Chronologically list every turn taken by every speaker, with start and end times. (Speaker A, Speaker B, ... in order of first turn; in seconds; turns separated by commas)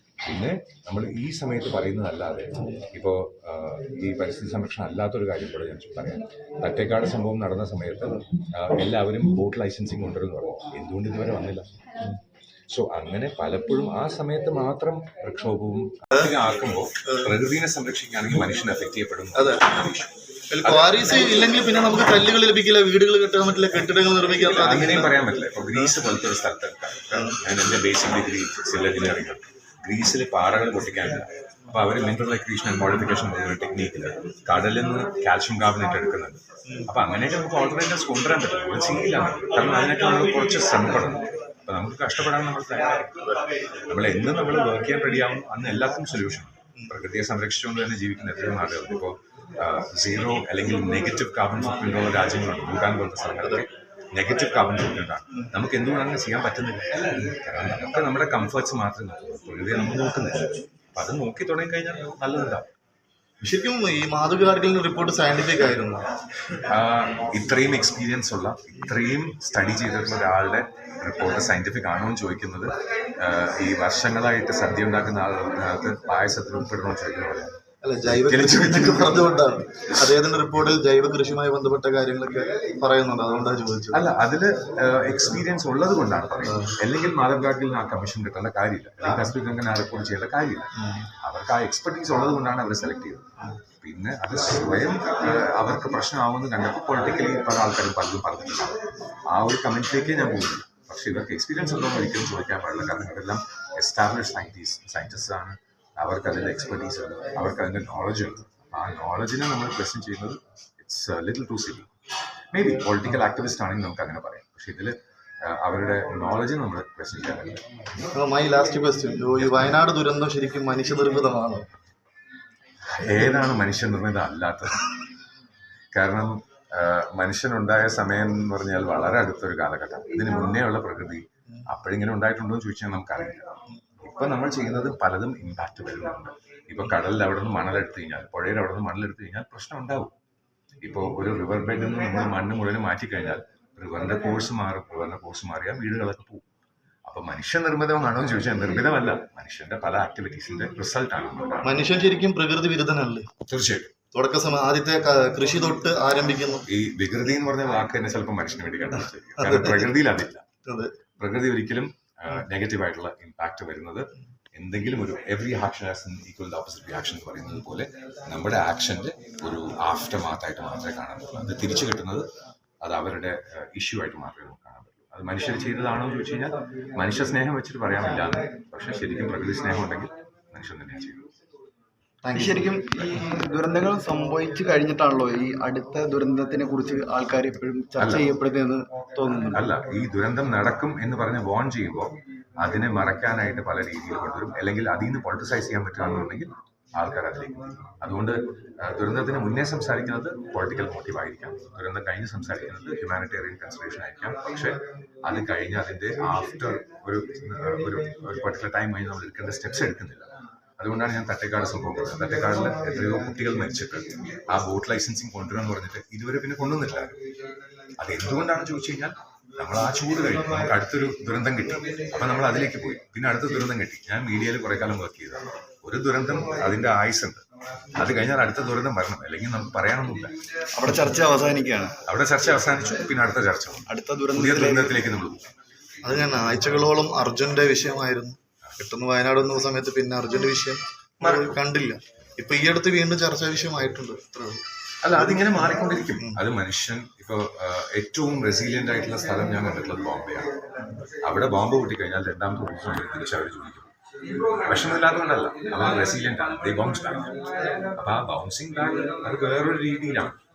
Speaker A: 0.2-11.7, Speaker A: 12.7-21.1, Speaker B: 19.3-19.6, Speaker B: 20.5-25.1, Speaker A: 24.4-62.7, Speaker B: 63.4-66.1, Speaker A: 66.5-77.5, Speaker B: 77.8-84.0, Speaker A: 78.0-79.3, Speaker A: 79.8-80.1, Speaker A: 83.9-93.2, Speaker A: 93.8-111.9, Speaker A: 112.5-118.1, Speaker B: 118.1-121.7, Speaker A: 119.4-119.7, Speaker A: 122.8-124.9, Speaker A: 125.9-133.5, Speaker A: 134.0-140.1, Speaker A: 140.8-146.4, Speaker A: 147.1-151.8, Speaker B: 151.6-153.3, Speaker A: 153.4-153.9, Speaker B: 154.1-156.7, Speaker A: 156.7-160.4, Speaker B: 159.4-159.9, Speaker B: 160.6-160.9, Speaker A: 161.2-172.3, Speaker A: 172.8-181.3, Speaker B: 182.2-182.8, Speaker C: 182.3-189.6, Speaker A: 188.0-188.3, Speaker A: 189.4-217.2, Speaker A: 218.0-230.3, Speaker C: 230.7-232.0, Speaker A: 232.0-235.5, Speaker C: 233.9-234.9, Speaker B: 236.0-244.6, Speaker A: 241.2-241.6, Speaker A: 245.0-250.5, Speaker A: 251.2-260.4